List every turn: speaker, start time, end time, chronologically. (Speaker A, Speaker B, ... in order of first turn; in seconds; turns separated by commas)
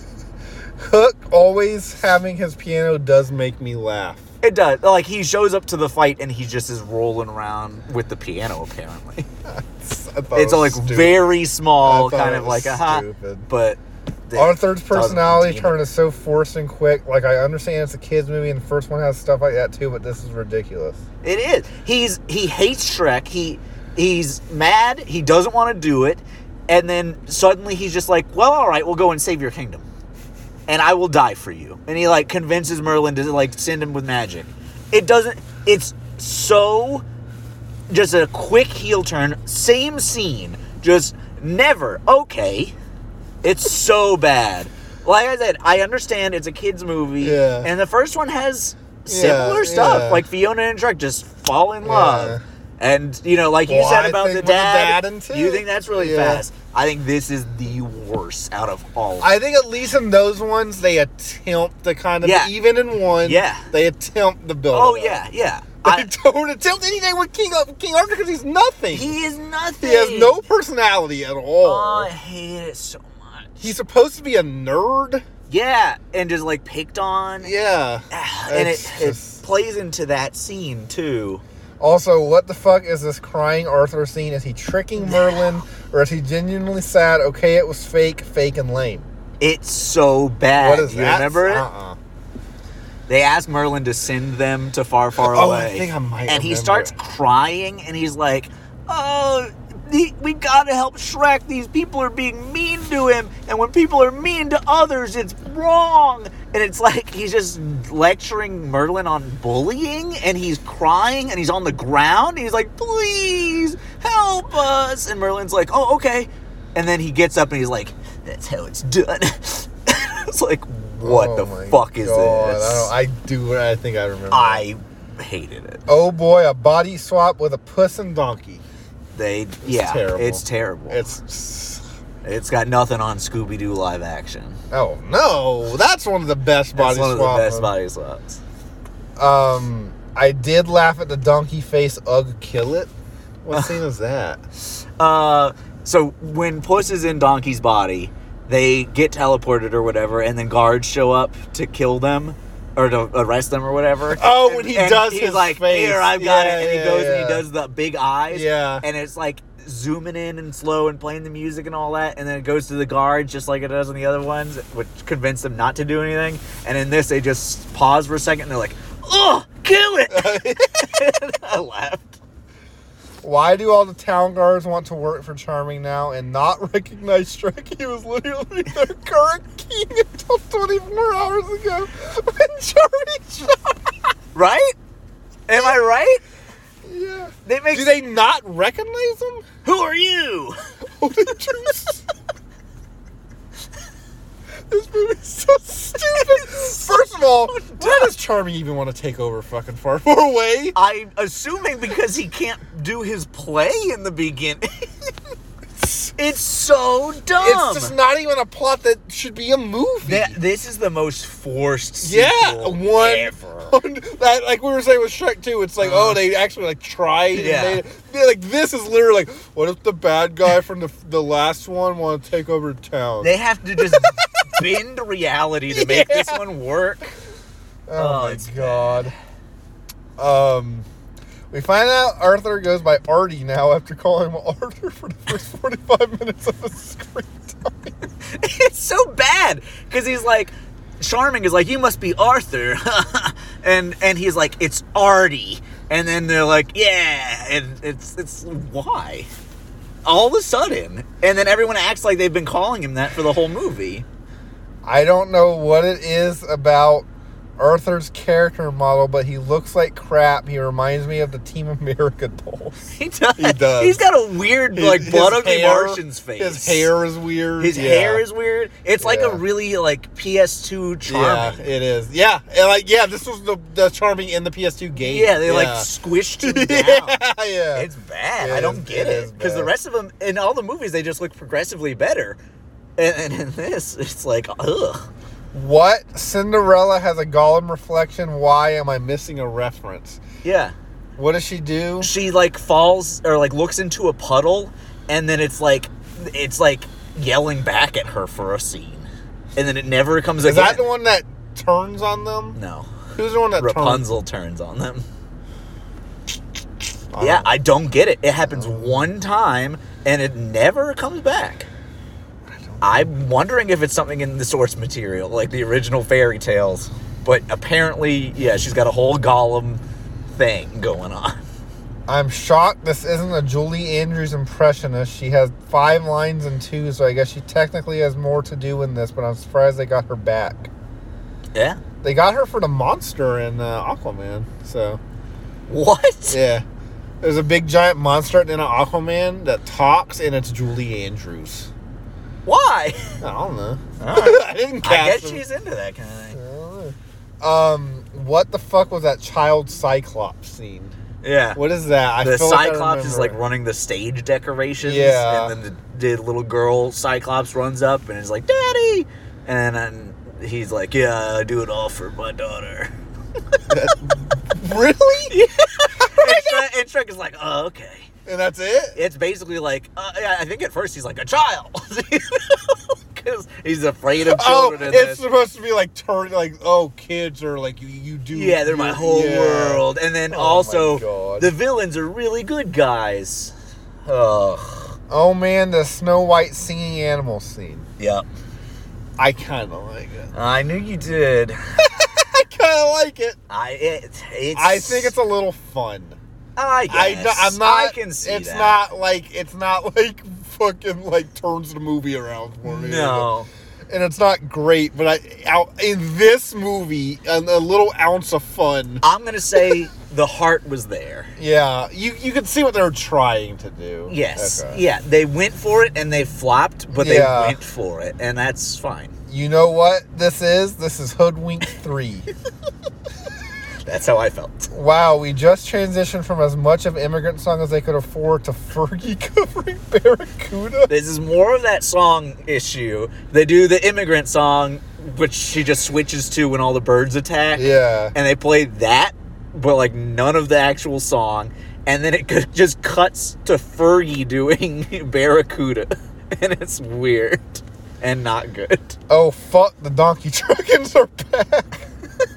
Speaker A: 0.8-4.3, Speaker B: 4.4-9.3, Speaker A: 9.4-11.2, Speaker B: 10.3-15.8, Speaker A: 11.8-13.5, Speaker A: 14.3-21.0, Speaker B: 21.2-29.9, Speaker B: 30.7-37.0, Speaker B: 37.9-42.8, Speaker B: 43.4-59.3, Speaker A: 47.2-47.7, Speaker A: 49.1-50.2, Speaker A: 51.8-52.4, Speaker A: 53.7-56.5, Speaker A: 59.2-65.2, Speaker B: 62.2-62.5, Speaker B: 63.2-63.7, Speaker B: 64.7-66.1, Speaker A: 65.8-69.2, Speaker B: 68.9-70.5, Speaker A: 69.8-72.1, Speaker B: 71.6-73.7, Speaker A: 73.6-75.2, Speaker B: 75.5-77.5, Speaker A: 77.4-79.4, Speaker B: 78.1-81.4, Speaker A: 81.8-89.1, Speaker B: 85.0-85.5, Speaker B: 89.4-91.7, Speaker A: 90.6-92.0, Speaker B: 93.1-122.9, Speaker A: 95.2-97.0, Speaker A: 121.0-124.7, Speaker B: 124.3-125.8, Speaker A: 125.9-128.6, Speaker B: 129.1-131.0, Speaker A: 129.6-131.8, Speaker B: 132.2-134.6, Speaker A: 134.7-137.7, Speaker B: 136.8-138.4, Speaker A: 139.2-142.9, Speaker A: 143.4-144.4, Speaker B: 144.6-172.2, Speaker A: 154.1-157.4, Speaker A: 158.3-158.8, Speaker A: 170.1-170.9, Speaker A: 173.2-183.9, Speaker B: 184.3-184.8, Speaker B: 185.5-186.2, Speaker A: 186.8-189.4, Speaker B: 187.5-188.0, Speaker B: 189.7-190.6, Speaker A: 191.0-192.1, Speaker A: 194.7-200.8, Speaker B: 196.1-197.0, Speaker B: 197.5-198.1, Speaker B: 200.8-204.9, Speaker A: 205.8-206.2, Speaker B: 206.2-207.9, Speaker A: 207.4-210.4, Speaker B: 210.1-213.8, Speaker A: 212.0-224.7, Speaker B: 215.8-216.2, Speaker B: 217.3-217.8, Speaker B: 223.2-227.2, Speaker A: 225.7-226.4, Speaker A: 227.9-229.1, Speaker B: 228.0-229.1, Speaker A: 230.2-230.9, Speaker A: 231.5-237.9, Speaker B: 238.3-249.3, Speaker B: 250.1-254.1, Speaker A: 254.9-257.1, Speaker A: 257.6-262.8, Speaker B: 262.9-266.9, Speaker A: 263.4-264.0, Speaker A: 264.7-268.2, Speaker B: 267.6-271.7, Speaker A: 269.0-269.4, Speaker A: 271.1-275.9, Speaker B: 275.0-277.2, Speaker A: 276.4-277.9, Speaker B: 277.7-282.4, Speaker A: 278.4-279.7, Speaker B: 283.0-285.1, Speaker A: 285.5-290.2, Speaker B: 290.4-290.8, Speaker A: 291.2-292.1, Speaker B: 292.0-300.8, Speaker A: 300.4-302.6, Speaker B: 302.6-303.0, Speaker A: 303.1-304.1, Speaker B: 303.6-305.1, Speaker A: 307.1-307.5, Speaker B: 307.2-311.7, Speaker A: 308.5-309.1, Speaker A: 312.6-313.1, Speaker B: 312.8-319.8, Speaker B: 320.3-321.4, Speaker A: 322.1-330.7, Speaker B: 331.5-331.8, Speaker A: 332.0-335.0, Speaker B: 335.7-336.4, Speaker A: 336.3-336.6, Speaker A: 337.2-341.7, Speaker B: 342.4-343.2, Speaker A: 343.2-345.4, Speaker B: 344.0-346.4, Speaker A: 346.3-350.9, Speaker B: 351.2-351.6, Speaker A: 351.6-353.4, Speaker B: 352.2-362.9, Speaker A: 354.8-355.6, Speaker A: 363.7-365.4, Speaker B: 365.3-368.1, Speaker A: 365.9-366.6, Speaker A: 368.3-369.0, Speaker B: 368.9-375.2, Speaker A: 374.2-381.5, Speaker B: 378.3-383.5, Speaker B: 384.1-385.0, Speaker A: 385.1-387.9, Speaker B: 388.0-388.3, Speaker A: 389.2-390.3, Speaker B: 390.3-391.6, Speaker A: 391.9-393.4, Speaker B: 393.5-395.1, Speaker A: 394.6-396.2, Speaker B: 396.6-398.8, Speaker A: 396.9-403.3, Speaker B: 402.6-403.5, Speaker A: 403.9-409.1, Speaker B: 409.0-411.3, Speaker A: 411.4-414.8, Speaker B: 414.1-419.1, Speaker A: 416.9-417.6, Speaker A: 419.3-422.3, Speaker B: 423.9-424.7, Speaker A: 424.7-430.9, Speaker B: 430.9-449.0, Speaker A: 437.6-438.1, Speaker A: 449.1-451.9